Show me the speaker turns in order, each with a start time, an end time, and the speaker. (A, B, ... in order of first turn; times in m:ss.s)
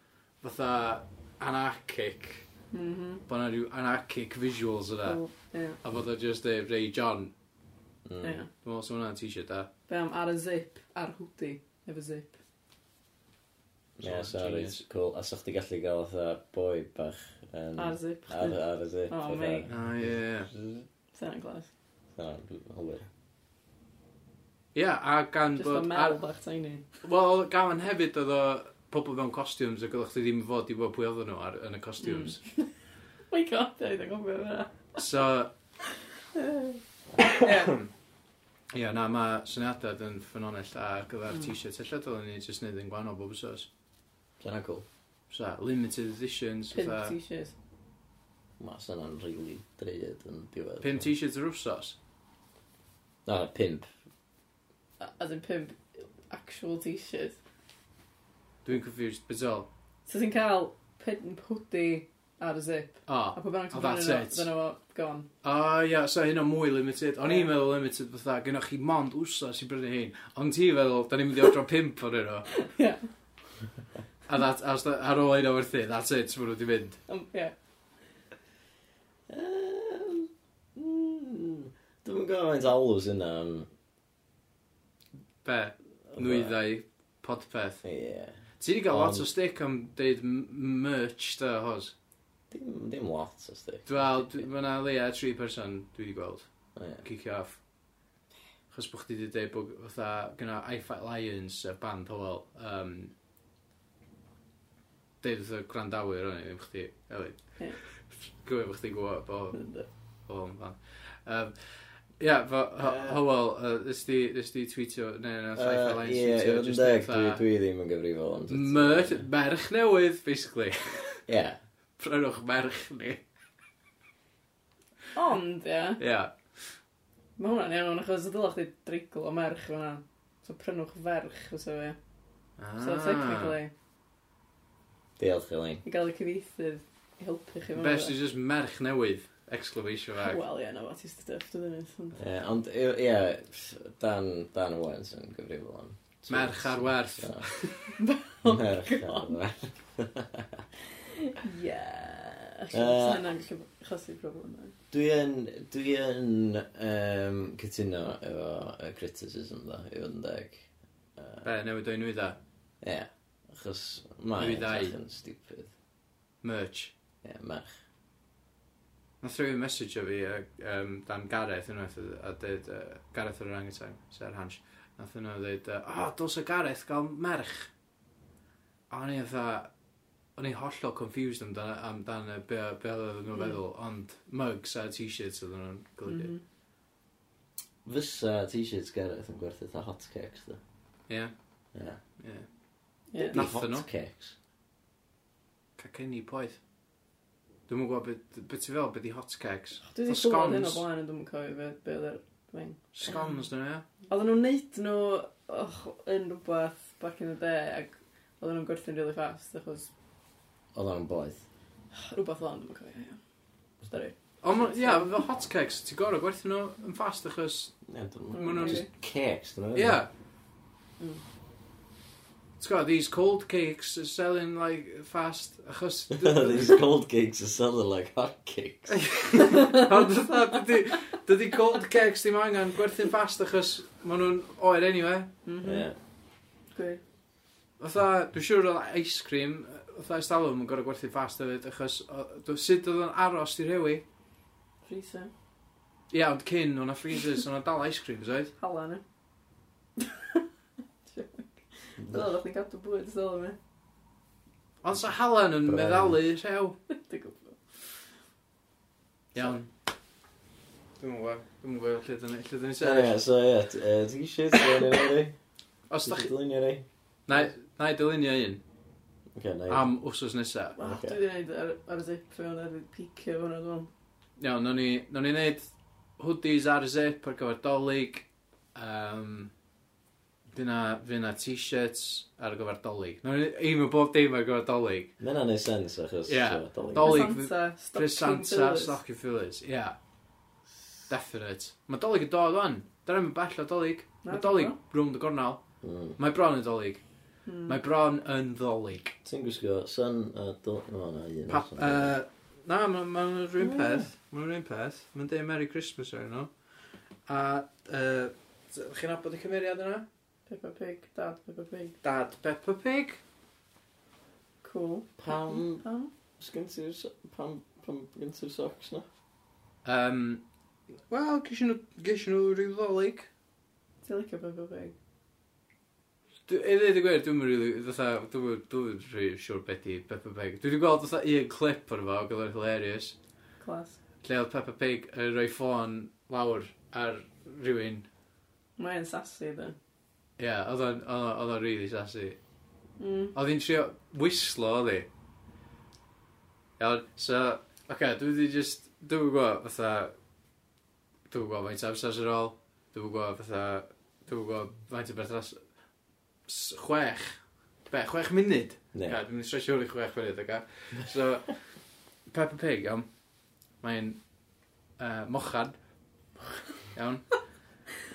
0:00.4-0:02.4 A
0:02.7-0:03.2 B
0:03.3-0:05.2 A
0:05.0-0:05.8 B
0:05.8-0:07.3 A
0:08.0-0:08.4 C
0:08.2-0:08.5 B
0:08.6-0:09.7 A
0:09.9-0:12.4 B
0:14.0-0:20.8 C
0:14.0-0:14.8 A
0:17.8-0:19.7 B
0:19.7-0:20.5 A
0:21.1-0:21.7 B
0:22.1-0:23.1 C
0:24.7-0:26.2 A
0:25.6-0:26.8 B
0:27.0-0:32.4 A
0:32.0-0:32.7 B
0:33.3-0:35.0 B
0:35.0-0:35.5 A
0:36.3-0:36.8 B
0:37.4-0:37.6 B
0:37.4-0:37.9 A
0:38.7-0:43.7 A
0:44.4-0:44.8 C
0:45.3-0:47.1 A
0:46.7-0:47.5 B
0:48.6-0:51.1 C
0:50.8-0:52.0 A
0:53.2-0:53.9 C
0:55.0-0:57.4 B
0:58.6-0:59.7 A
1:00.1-1:05.3 B
1:03.1-1:04.5 A
1:05.4-1:12.5 A
1:07.2-1:07.5 B
1:12.5-1:13.0 B
1:14.3-1:17.0 A
1:17.1-1:17.5 B
1:19.3-1:23.7 C
1:25.4-1:27.8 A
1:26.1-1:26.6 C
1:27.8-1:29.3 C
1:28.6-1:31.9 A
1:32.5-1:34.5 C
1:33.9-1:36.5 A
1:36.8-1:37.0 C
1:37.0-1:37.6 A
1:38.7-1:43.1 A
1:45.2-1:47.4 A
1:48.4-1:49.6 A
1:49.5-1:49.8 B
1:50.3-1:57.4 A
1:52.8-1:53.2 C
1:55.6-1:59.2 C
1:58.5-2:01.2 A
2:01.3-2:01.6 C
2:02.0-2:03.2 A
2:05.1-2:06.0 B
2:06.0-2:06.3 A
2:07.4-2:12.0 B
2:12.6-2:13.6 A
2:12.8-2:13.7 B
2:15.2-2:15.8 C
2:15.8-2:18.1 B
2:17.7-2:20.4 A
2:20.2-2:22.2 B
2:22.2-2:27.5 C
2:26.3-2:27.7 A
2:27.9-2:29.4 B
2:28.4-2:30.6 C
2:31.1-2:34.7 B
2:32.7-2:33.2 C
2:34.9-2:41.5 C
2:41.4-2:42.4 A
2:42.8-2:45.7 C
2:44.4-2:44.9 A
2:46.4-2:46.9 A
2:47.2-2:47.8 C
2:49.2-2:57.7 A
2:58.9-2:59.7 A
3:00.4-3:06.3 A
3:03.3-3:03.6 B
3:06.1-3:06.4 B
3:07.8-3:10.6 C
3:11.7-3:12.0 C
3:12.2-3:12.4 A
3:13.1-3:13.4 B
3:13.2-3:13.8 A
3:13.3-3:14.4 C
3:15.8-3:16.6 A
3:17.7-3:20.8 A
3:19.9-3:22.8 B
3:22.9-3:23.8 A
3:24.1-3:29.9 B
3:30.7-3:31.4 C
3:32.0-3:33.2 B
3:33.8-3:35.2 B
3:34.4-3:37.8 A
3:37.8-3:40.0 C
3:38.3-3:38.9 B
3:38.3-3:38.8 A
3:39.7-3:40.1 A
3:42.6-3:46.8 A
3:46.1-3:49.2 C
3:48.9-3:55.3 A
3:49.4-3:49.9 B
3:55.4-3:55.9 B
3:55.6-3:56.0 C
3:56.7-3:57.0 B
3:57.8-4:04.0 A
4:04.8-4:05.3 B
4:06.1-4:08.5 A
4:08.6-4:09.0 B
4:10.0-4:10.4 B
4:11.1-4:13.6 B
4:12.0-4:12.3 C
4:14.8-4:16.8 A
4:15.6-4:16.2 C
4:16.9-4:17.6 B
4:19.3-4:19.7 A
4:21.0-4:23.1 A
4:22.8-4:25.4 C
4:25.9-4:26.3 A
4:26.0-4:26.8 C
4:27.3-4:28.6 A
4:29.3-4:29.9 C
4:29.7-4:30.8 A
4:30.8-4:33.9 B
4:30.8-4:31.2 C
4:34.4-4:35.7 A
4:36.2-4:39.5 A
4:40.5-4:45.1 A
4:45.2-4:47.3 C
4:46.3-4:50.0 A
4:47.0-4:49.0 B
4:51.1-4:55.6 A
4:54.2-4:54.8 B
4:55.8-4:56.2 C
4:56.2-4:57.0 A
4:57.4-4:57.8 B
4:57.7-4:59.1 A
4:59.2-5:02.1 C
5:01.5-5:06.5 A
5:03.6-5:04.1 C
5:07.3-5:10.0 A
5:10.5-5:12.0 B
5:12.0-5:13.2 A
5:14.6-5:16.1 B
5:15.2-5:15.8 C
5:16.4-5:19.1 C
5:19.8-5:20.4 A
5:21.1-5:23.3 A
5:24.0-5:24.9 B
5:26.5-5:33.1 A
5:33.6-5:34.0 B
5:34.2-5:38.1 A
5:38.8-5:39.8 B
5:40.4-5:42.4 A
5:43.0-5:43.3 B
5:43.3-5:45.1 A
5:46.8-5:50.1 A
5:51.3-5:55.6 A
5:56.5-6:01.6 A
5:58.9-5:59.2 C
6:02.3-6:03.0 A
6:03.8-6:04.2 A
6:05.0-6:05.8 A
6:06.9-6:07.4 A